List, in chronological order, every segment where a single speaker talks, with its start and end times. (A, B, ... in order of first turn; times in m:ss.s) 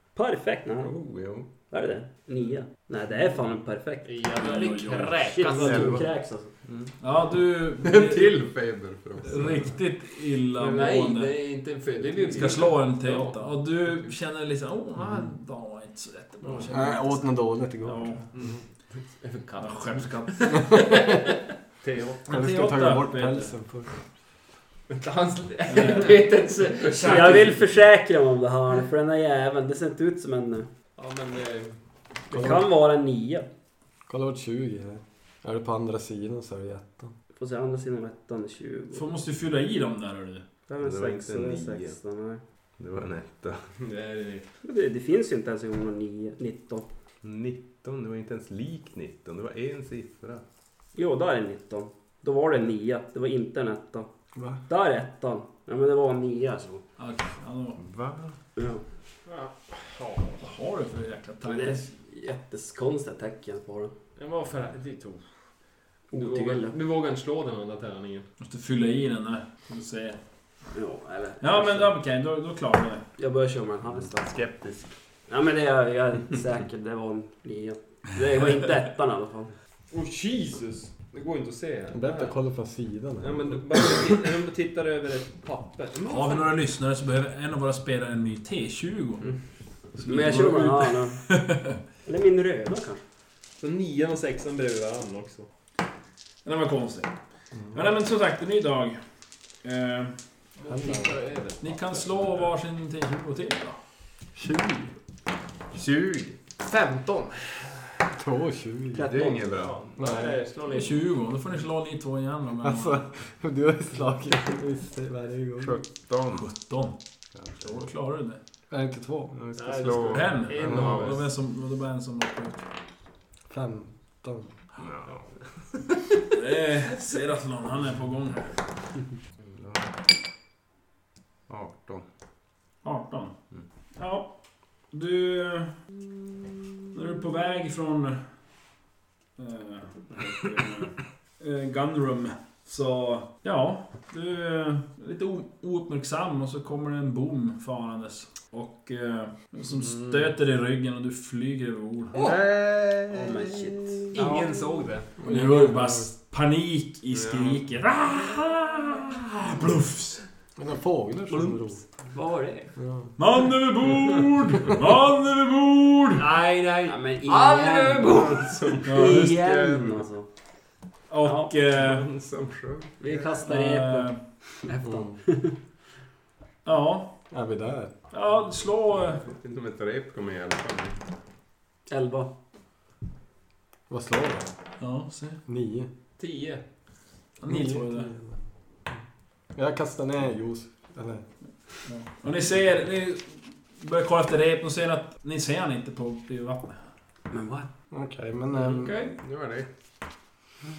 0:00.2-0:00.9 A
0:00.8-0:01.5 B
0:01.7-0:04.2 A
0:04.0-0:06.0 C
0:04.3-0:05.8 D
0:05.3-0:06.5 A
0:05.7-0:06.0 B
0:06.6-0:06.9 B
0:07.0-0:08.4 D
0:07.8-0:09.6 B
0:09.2-0:11.4 D
0:10.6-0:13.5 C
0:12.2-0:18.3 D
0:16.7-0:18.2 E
0:18.4-0:22.2 C
0:19.6-0:21.1 D
0:22.2-0:23.5 D
0:22.3-0:23.9 E
0:24.9-0:27.6 C
0:25.7-0:26.2 D
0:27.0-0:30.7 A
0:31.0-0:31.8 C
0:32.3-0:33.5 A
0:32.3-0:32.7 E
0:34.1-0:37.1 E
0:37.4-0:39.1 A
0:38.9-0:40.4 D
0:40.7-0:42.4 A
0:40.8-0:42.0 B
0:42.8-0:43.6 B
0:43.8-0:44.5 C
0:44.6-0:46.9 A
0:47.2-0:50.4 B
0:51.0-0:54.1 A
0:54.7-0:56.8 A
0:57.0-0:57.8 D
0:57.8-0:58.4 B
0:58.6-0:58.8 A
0:59.3-1:00.5 C
1:00.4-1:01.9 D
1:01.4-1:03.9 A
1:04.2-1:05.2 C
1:06.1-1:06.8 A
1:06.1-1:08.3 C
1:08.4-1:10.2 D
1:10.7-1:12.0 A
1:11.4-1:13.0 D
1:13.2-1:14.6 A
1:15.3-1:19.5 A
1:19.9-1:22.3 C
1:21.9-1:23.6 E
1:23.2-1:26.5 C
1:26.0-1:29.3 D
1:30.0-1:31.8 D
1:30.0-1:31.2 A
1:32.0-1:33.0 A
1:33.6-1:35.5 C
1:36.4-1:37.1 D
1:37.7-1:39.0 D
1:39.6-1:40.2 D
1:40.6-1:42.5 C
1:40.7-1:41.2 E
1:41.6-1:43.8 D
1:44.4-1:44.9 E
1:45.7-1:46.4 B
1:46.6-1:48.0 C
1:48.2-1:49.1 E
1:48.9-1:49.5 A
1:49.0-1:49.8 B
1:49.6-1:51.0 C
1:50.0-1:50.4 E
1:50.6-1:53.0 D
1:52.6-1:55.8 E
1:55.6-1:56.5 B
1:56.3-1:57.0 D
1:57.4-1:57.8 B
1:57.6-1:58.4 D
1:58.7-1:59.4 E
1:59.4-2:01.3 B
1:59.6-2:01.2 C
2:00.1-2:02.6 D
2:03.5-2:04.5 E
2:04.8-2:05.3 B
2:06.3-2:08.5 D
2:09.5-2:09.9 B
2:11.5-2:12.0 B
2:12.8-2:13.3 D
2:14.0-2:14.3 D
2:14.9-2:15.7 D
2:16.9-2:18.2 D
2:19.4-2:32.3 D
2:32.2-2:34.2 E
2:33.1-2:34.5 A
2:34.1-2:35.1 C
2:35.2-2:36.1 E
2:35.2-2:40.2 D
2:37.1-2:37.6 B
2:40.6-2:41.8 E
2:41.3-2:41.7 C
2:42.1-2:42.7 A
2:42.8-2:43.1 E
2:43.2-2:46.3 D
2:46.2-2:48.9 C
2:46.9-2:50.3 A
2:48.4-2:50.1 B
2:48.8-2:49.5 D
2:51.1-2:52.1 D
2:51.2-2:51.5 A
2:51.7-2:53.2 B
2:53.0-2:55.6 A
2:53.4-2:54.2 D
2:54.8-2:55.2 E
2:56.6-2:57.1 D
2:57.3-2:57.9 E
2:58.1-2:59.2 D
2:59.2-3:01.0 B
3:01.9-3:02.3 A
3:03.9-3:04.5 E
3:04.8-3:05.4 D
3:05.5-3:05.9 E
3:06.2-3:06.6 C
3:07.4-3:08.1 D
3:07.5-3:08.4 E
3:09.6-3:11.2 E
3:11.9-3:16.8 D
3:17.3-3:17.7 A
3:17.9-3:19.0 E
3:18.6-3:19.2 C
3:19.2-3:19.7 B